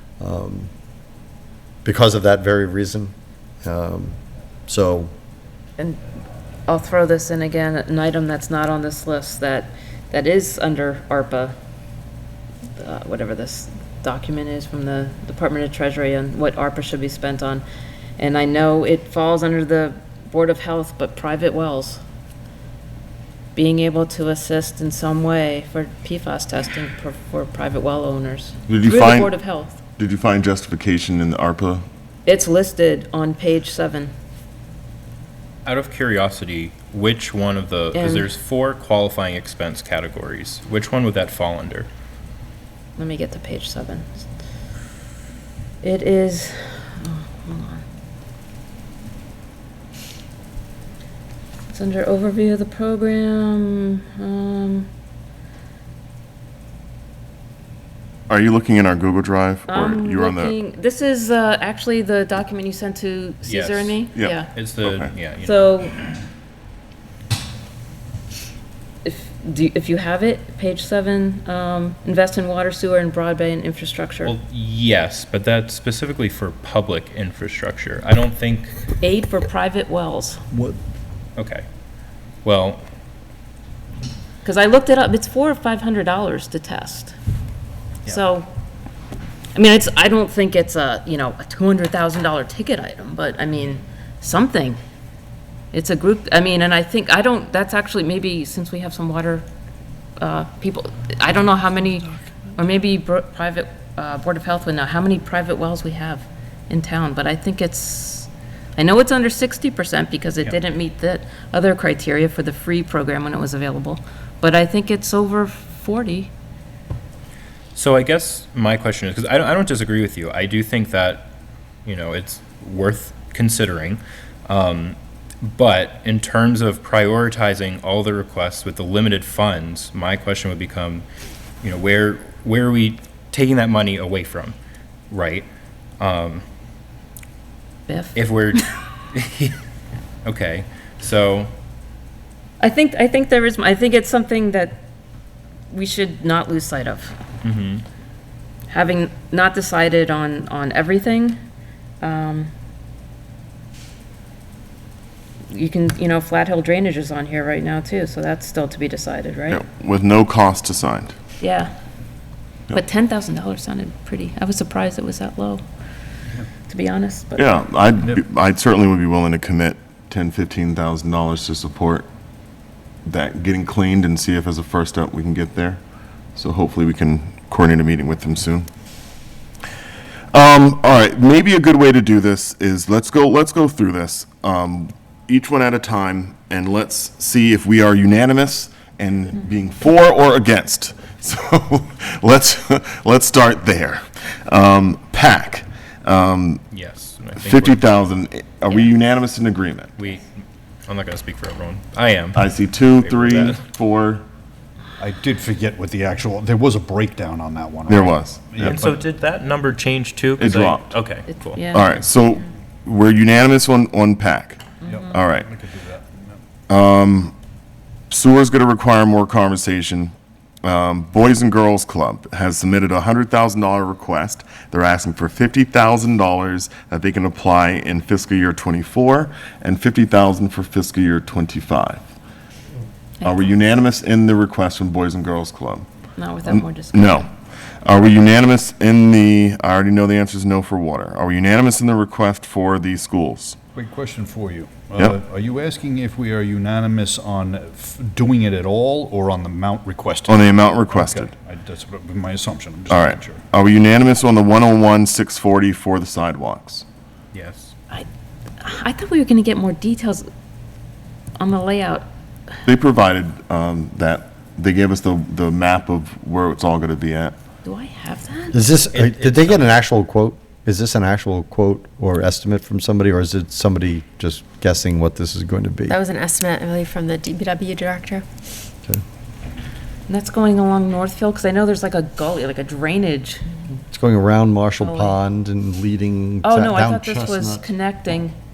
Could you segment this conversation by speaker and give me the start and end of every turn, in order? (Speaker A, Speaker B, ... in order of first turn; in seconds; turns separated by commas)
Speaker A: 0.2-0.7, Speaker A: 1.9-5.1, Speaker B: 6.7-11.5, Speaker B: 12.8-17.6, Speaker B: 18.2-22.0, Speaker B: 23.6-29.8, Speaker C: 28.7-29.3, Speaker C: 30.0-31.9, Speaker B: 32.3-34.1, Speaker D: 35.6-41.9, Speaker B: 37.9-38.3, Speaker B: 43.0-44.2, Speaker B: 45.8-47.8, Speaker B: 51.7-54.9, Speaker C: 58.3-60.5, Speaker B: 59.7-64.5, Speaker D: 63.4-65.6, Speaker C: 64.2-65.1, Speaker B: 65.4-66.0, Speaker B: 69.0-74.3, Speaker D: 74.2-78.8, Speaker B: 79.0-80.4, Speaker D: 81.4-81.7, Speaker D: 82.4-82.8, Speaker B: 84.4-87.1, Speaker B: 88.1-88.5, Speaker B: 89.5-94.8, Speaker B: 95.7-99.5, Speaker B: 100.2-116.3, Speaker D: 117.7-121.3, Speaker D: 121.8-131.1, Speaker D: 131.6-134.6, Speaker D: 135.1-135.5, Speaker D: 136.0-136.4, Speaker B: 137.9-138.2, Speaker D: 138.2-139.6, Speaker D: 140.2-141.5, Speaker B: 142.6-144.8, Speaker B: 145.7-147.2, Speaker D: 147.4-147.8, Speaker B: 148.7-151.4, Speaker B: 152.0-152.5, Speaker B: 155.5-159.6, Speaker C: 159.5-161.2, Speaker B: 161.4-161.7, Speaker B: 162.7-165.6, Speaker B: 166.7-167.6, Speaker C: 167.4-172.1, Speaker C: 173.1-175.8, Speaker C: 176.3-178.7, Speaker C: 180.3-196.6, Speaker D: 196.7-197.8, Speaker C: 197.4-199.9, Speaker D: 200.0-200.3, Speaker D: 200.9-203.6, Speaker C: 202.4-204.2, Speaker E: 205.0-209.0, Speaker C: 207.9-208.8, Speaker D: 208.6-211.6, Speaker C: 210.4-210.9, Speaker B: 211.6-211.9, Speaker C: 211.7-215.5, Speaker B: 214.8-215.1, Speaker E: 214.9-216.4, Speaker C: 216.7-217.3, Speaker C: 218.1-232.1, Speaker C: 233.2-235.9, Speaker B: 236.2-237.3, Speaker C: 236.4-237.3, Speaker C: 237.8-243.6, Speaker E: 243.8-253.4, Speaker C: 250.3-251.3, Speaker C: 252.9-256.9, Speaker D: 257.3-257.7, Speaker B: 258.6-260.3, Speaker B: 261.4-262.1, Speaker C: 262.7-267.4, Speaker B: 267.6-268.6, Speaker A: 268.5-276.0, Speaker D: 268.9-269.7, Speaker F: 275.9-278.2, Speaker B: 280.1-283.4, Speaker A: 283.9-287.7, Speaker B: 284.8-285.2, Speaker B: 286.4-288.4